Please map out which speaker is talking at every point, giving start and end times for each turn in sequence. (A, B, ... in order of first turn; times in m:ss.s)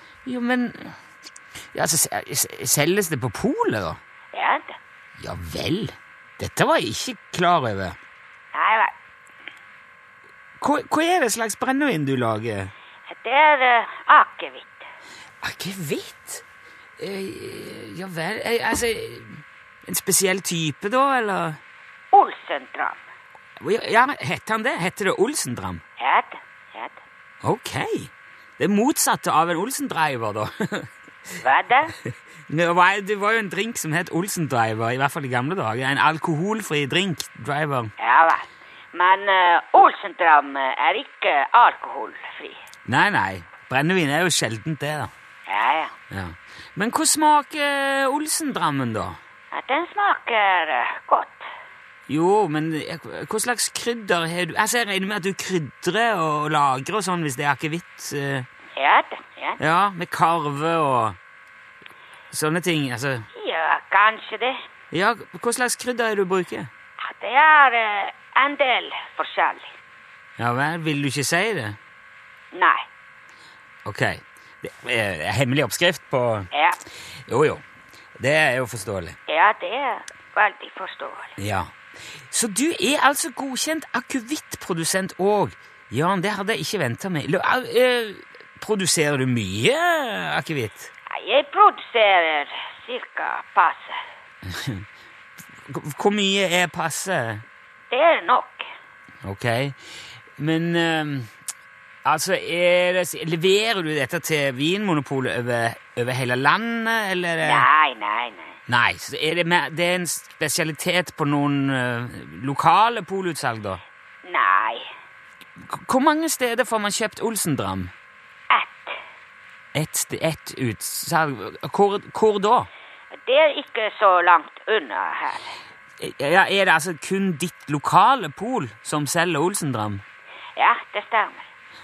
0:00.2-0:01.0 A
0:01.7-0:04.0 A
0:04.3-0:04.8 B
0:05.2-0:08.0 A
0:08.5-0:08.9 B
0:10.6-0:12.7 A
0:13.1-0:14.9 B
0:15.4-0:16.4 A
0:17.0-0:21.6 A
0:22.1-0:23.0 B
0:23.6-0:25.8 A
0:26.0-0:27.0 B
0:27.4-0:30.9 A
0:31.4-0:31.9 B
0:32.5-0:37.9 A
0:38.0-0:42.6 B
0:42.8-0:45.1 A
0:45.5-0:45.9 B
0:46.1-0:49.2 A
0:49.5-0:51.4 B
0:52.1-0:58.5 A
0:58.8-0:59.6 B
0:59.6-1:01.2 A
1:02.3-1:03.2 A
1:03.3-1:04.6 B
1:04.9-1:06.7 A
1:07.0-1:09.7 B
1:10.4-1:11.8 A
1:12.5-1:12.8 B
1:13.8-1:16.5 A
1:16.5-1:16.8 B
1:17.3-1:17.6 A
1:18.2-1:19.2 A
1:19.3-1:21.4 B
1:21.4-1:21.7 A
1:22.3-1:30.9 A
1:31.1-1:34.0 B
1:34.5-1:34.8 A
1:35.6-1:37.4 A
1:37.9-1:38.6 B
1:39.2-1:39.8 A
1:40.4-1:41.3 A
1:42.0-1:47.6 A
1:47.4-1:48.5 B
1:48.7-1:53.8 A
1:54.2-1:54.9 B
1:55.6-1:57.9 A
1:58.5-1:59.0 B
1:59.7-2:02.7 A
2:03.1-2:05.6 B
2:06.0-2:10.0 A
2:10.6-2:11.5 B